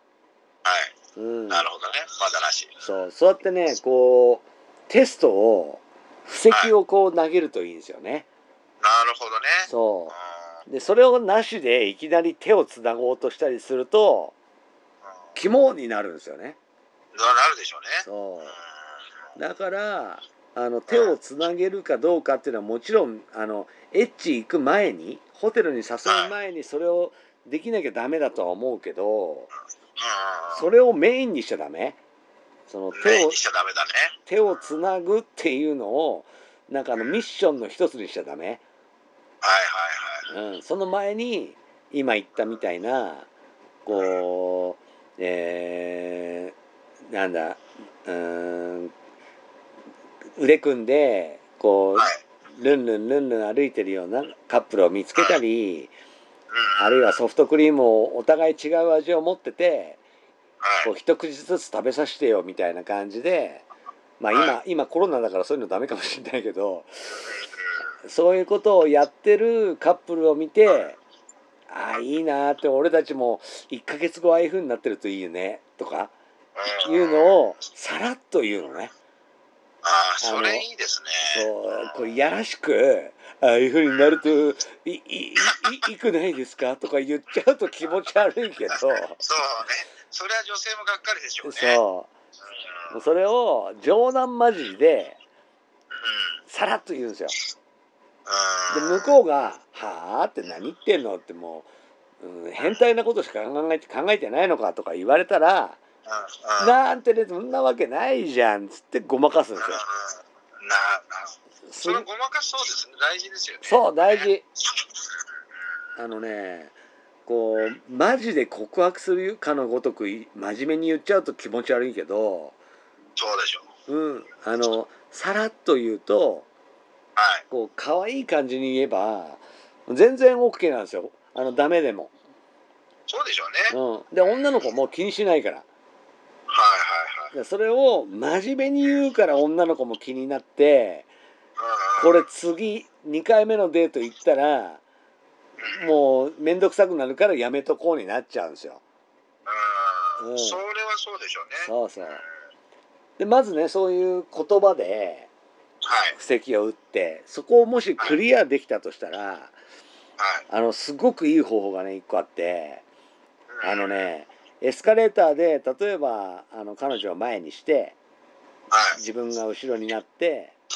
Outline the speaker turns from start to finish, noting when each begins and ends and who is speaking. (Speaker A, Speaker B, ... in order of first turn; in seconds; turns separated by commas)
Speaker A: 0.7-0.9, Speaker B: 1.2-1.7, Speaker A: 1.5-2.7, Speaker B: 2.8-8.3, Speaker A: 8.8-10.2, Speaker B: 9.7-10.1, Speaker B: 10.7-14.3, Speaker B: 15.3-16.6, Speaker A: 17.1-18.6, Speaker B: 18.0-18.6, Speaker B: 19.4-29.5, Speaker A: 26.1-26.3, Speaker A: 30.0-30.7, Speaker B: 30.5-32.0, Speaker B: 32.7-33.4, Speaker A: 33.0-34.1, Speaker B: 34.3-38.6, Speaker A: 39.4-40.2, Speaker B: 40.3-43.3, Speaker B: 43.9-46.5, Speaker A: 43.9-44.2, Speaker B: 47.1-48.9, Speaker B: 50.4-55.9, Speaker A: 56.5-57.1, Speaker B: 56.8-60.0, Speaker A: 60.6-60.9, Speaker B: 60.8-63.6, Speaker B: 64.2-66.9, Speaker B: 68.0-71.0, Speaker B: 71.7-76.1, Speaker A: 76.6-77.3, Speaker B: 76.8-78.9, Speaker A: 79.8-81.5, Speaker B: 80.2-80.7, Speaker B: 81.3-89.2, Speaker A: 89.2-91.8, Speaker B: 91.4-92.1, Speaker B: 92.9-95.2, Speaker A: 96.0-96.3, Speaker B: 96.5-97.4, Speaker A: 98.3-99.1, Speaker B: 98.7-101.7, Speaker B: 102.2-105.8, Speaker A: 106.1-106.8, Speaker B: 106.6-109.8, Speaker A: 109.6-114.3, Speaker B: 111.7-112.1, Speaker B: 113.6-114.4, Speaker B: 116.0-116.7, Speaker B: 117.3-122.6, Speaker A: 123.2-123.7, Speaker B: 123.9-126.5, Speaker A: 127.2-127.4, Speaker B: 127.5-132.1, Speaker A: 133.1-133.7, Speaker B: 133.7-135.7, Speaker A: 136.5-137.3, Speaker B: 137.3-141.1, Speaker A: 141.6-142.2, Speaker B: 142.0-144.8, Speaker B: 145.7-148.8, Speaker A: 149.5-152.2, Speaker B: 150.2-150.6, Speaker B: 151.6-152.2, Speaker B: 153.2-155.3, Speaker A: 155.8-156.1, Speaker B: 156.1-159.5, Speaker A: 160.2-160.4, Speaker B: 160.5-162.8, Speaker A: 163.5-164.1, Speaker B: 163.6-168.0, Speaker B: 168.9-170.6